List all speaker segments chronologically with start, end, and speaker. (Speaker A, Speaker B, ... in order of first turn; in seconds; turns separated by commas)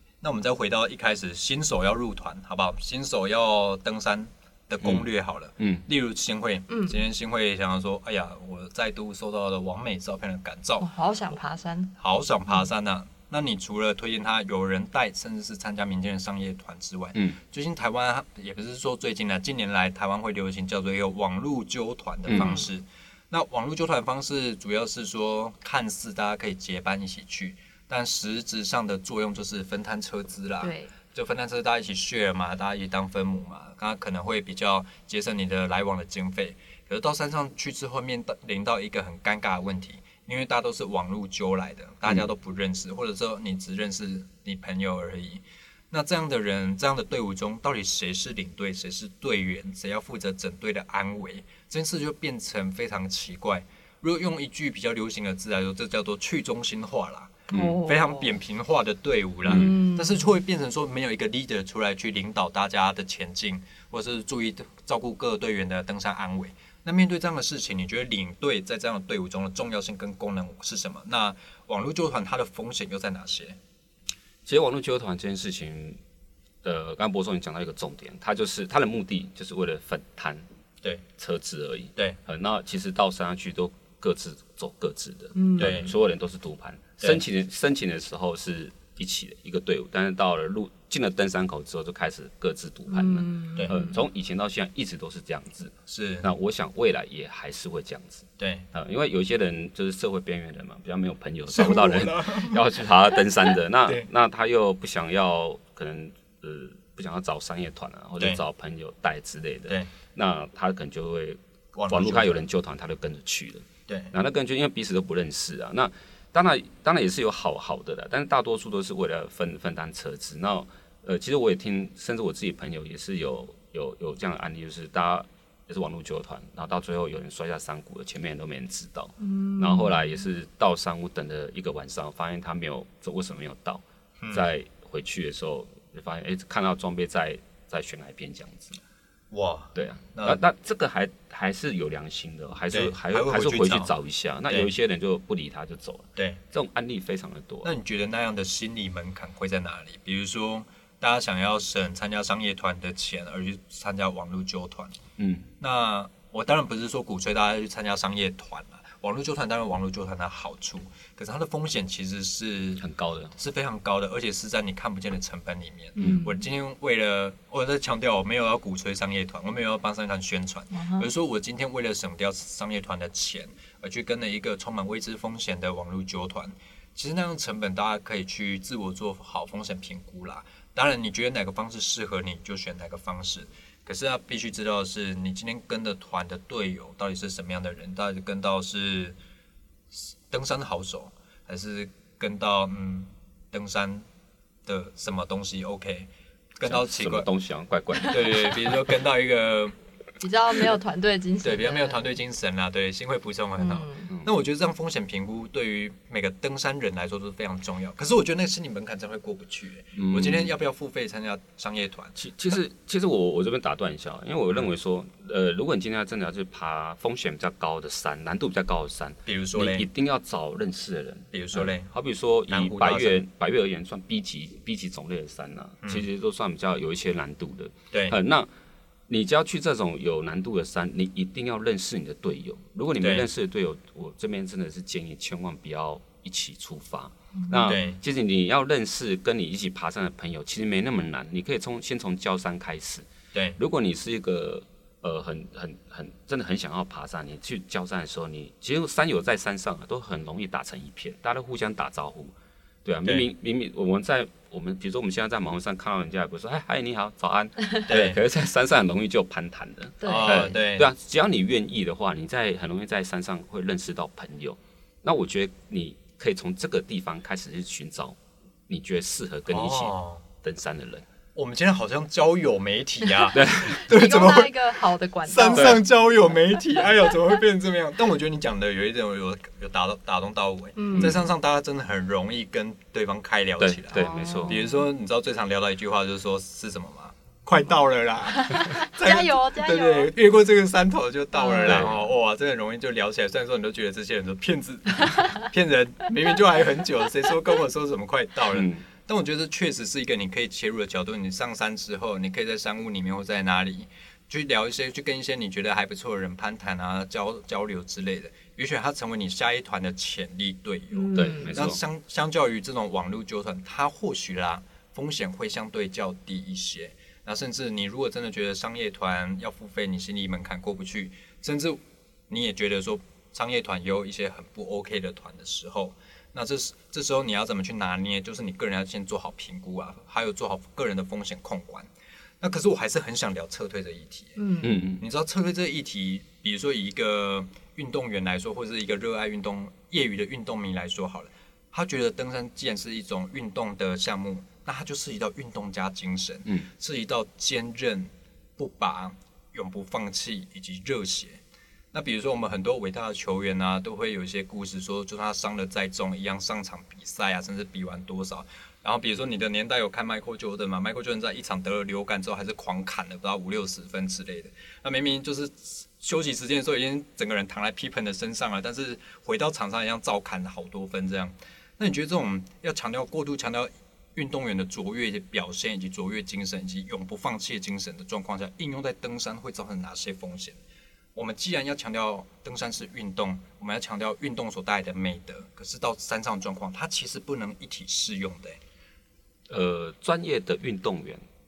Speaker A: 0.2-10.9, Speaker B: 6.7-7.0, Speaker B: 10.8-11.9, Speaker A: 12.0-73.6, Speaker C: 22.3-22.6, Speaker B: 22.3-22.6, Speaker B: 30.6-30.9, Speaker C: 57.5-57.8, Speaker B: 57.5-58.3, Speaker B: 59.5-60.2, Speaker C: 74.5-76.0, Speaker C: 76.6-80.4, Speaker C: 81.2-138.8, Speaker B: 85.3-85.8, Speaker A: 85.6-85.9, Speaker B: 92.9-93.9, Speaker A: 95.9-96.3, Speaker A: 98.4-98.7, Speaker A: 101.5-102.6, Speaker A: 111.7-112.4, Speaker A: 113.9-114.1, Speaker B: 129.2-130.0, Speaker A: 134.2-134.5, Speaker A: 139.3-140.4, Speaker C: 139.7-147.7, Speaker A: 142.7-143.9, Speaker A: 147.6-155.0, Speaker C: 155.2-155.5, Speaker A: 155.6-162.8, Speaker C: 162.8-163.3, Speaker A: 163.3-189.2, Speaker B: 166.0-166.4, Speaker B: 170.7-171.0, Speaker A: 189.9-194.1, Speaker A: 194.7-197.3, Speaker C: 196.6-198.8, Speaker A: 198.1-199.7, Speaker B: 200.2-202.1, Speaker A: 201.4-212.2, Speaker B: 203.6-204.1, Speaker C: 209.9-210.5, Speaker C: 212.2-228.5, Speaker A: 219.2-219.8, Speaker A: 221.3-221.9, Speaker A: 222.5-223.2, Speaker A: 227.9-228.2, Speaker C: 229.1-243.1, Speaker A: 233.0-233.3, Speaker A: 237.6-238.0, Speaker A: 243.3-243.6, Speaker C: 243.6-252.3, Speaker C: 252.8-271.0, Speaker A: 257.9-258.2, Speaker B: 260.0-260.5, Speaker A: 260.0-260.9, Speaker A: 269.5-270.2, Speaker A: 271.3-274.6, Speaker C: 273.3-273.8, Speaker B: 273.7-275.8, Speaker A: 275.2-331.9, Speaker C: 275.5-275.8, Speaker B: 280.8-281.2, Speaker C: 283.6-284.6, Speaker B: 283.9-284.8, Speaker B: 288.5-290.1, Speaker B: 291.3-291.9, Speaker C: 291.7-292.0, Speaker C: 298.5-298.8, Speaker B: 310.9-311.5, Speaker C: 311.1-311.8, Speaker A: 332.4-334.4, Speaker B: 334.4-334.7, Speaker C: 334.6-335.0, Speaker A: 335.0-351.4, Speaker A: 351.9-380.6, Speaker A: 381.1-388.6, Speaker C: 389.5-391.2